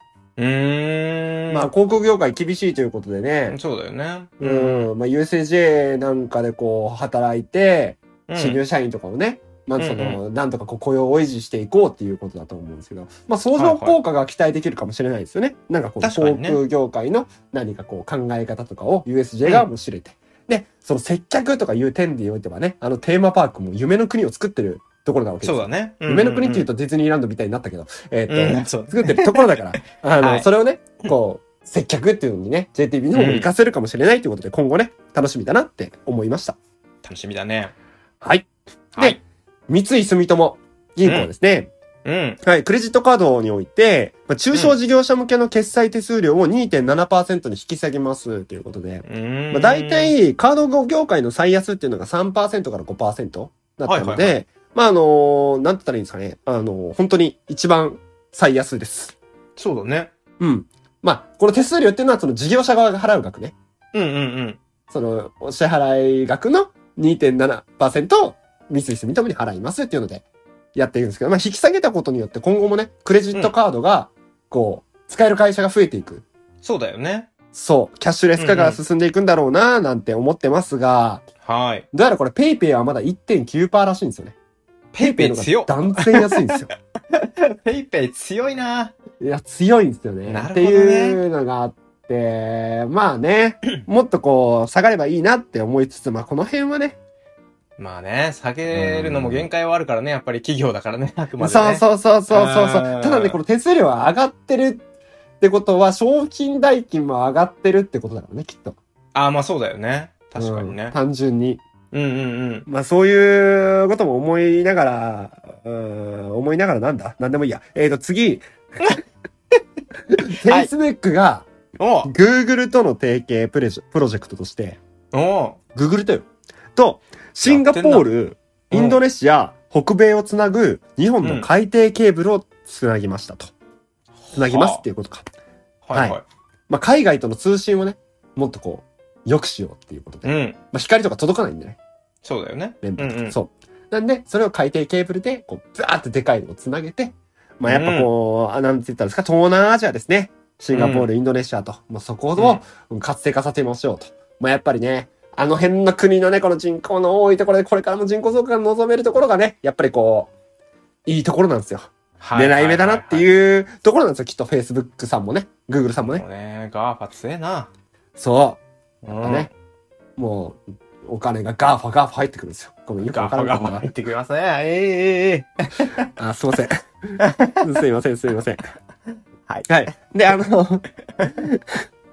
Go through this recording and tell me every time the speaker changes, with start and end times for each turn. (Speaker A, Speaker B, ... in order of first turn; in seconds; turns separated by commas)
Speaker A: 0.4-1.7, Speaker B: 1.5-3.6, Speaker A: 3.5-4.9, Speaker B: 4.4-36.6, Speaker A: 8.3-8.6, Speaker A: 9.8-10.2, Speaker A: 13.6-14.0, Speaker A: 16.0-16.6, Speaker A: 25.4-26.7, Speaker A: 28.3-30.5, Speaker A: 33.1-33.5, Speaker A: 37.0-37.7, Speaker B: 38.2-41.7, Speaker A: 41.0-41.3, Speaker A: 42.0-42.4, Speaker B: 42.4-59.2, Speaker A: 49.0-50.1, Speaker A: 53.9-54.3, Speaker A: 59.6-60.1, Speaker B: 60.4-63.5, Speaker A: 63.9-64.6, Speaker B: 64.9-76.2, Speaker A: 76.6-77.3, Speaker B: 77.5-81.2, Speaker A: 78.4-78.8, Speaker A: 81.4-81.9, Speaker B: 81.9-84.3, Speaker A: 84.9-86.5, Speaker B: 85.0-86.7, Speaker A: 87.1-89.0, Speaker B: 89.2-97.0, Speaker A: 90.3-91.2, Speaker A: 97.8-103.4, Speaker B: 98.8-99.4, Speaker B: 101.4-104.8, Speaker B: 105.4-108.8, Speaker A: 109.1-111.0, Speaker B: 110.4-111.6, Speaker A: 111.9-112.7, Speaker B: 112.7-119.0, Speaker B: 120.1-121.5, Speaker A: 121.8-122.1, Speaker B: 122.0-124.8, Speaker A: 125.1-125.6, Speaker B: 125.8-133.5, Speaker A: 127.4-128.1, Speaker A: 128.7-129.0, Speaker A: 131.2-131.5, Speaker A: 134.3-134.8, Speaker B: 134.3-135.2, Speaker A: 135.8-136.2, Speaker B: 135.9-136.2, Speaker B: 136.7-141.8, Speaker A: 140.2-140.6, Speaker A: 142.2-143.4, Speaker B: 142.8-160.3, Speaker A: 147.7-148.1, Speaker A: 150.7-151.1, Speaker A: 152.4-152.6, Speaker B: 161.1-166.2, Speaker A: 162.2-163.3, Speaker A: 166.1-167.7, Speaker B: 168.2-168.6, Speaker A: 169.0-169.5, Speaker B: 169.2-169.5, Speaker B: 170.2-173.9, Speaker A: 173.1-176.1, Speaker B: 176.2-178.6, Speaker A: 177.2-177.6, Speaker B: 179.7-181.6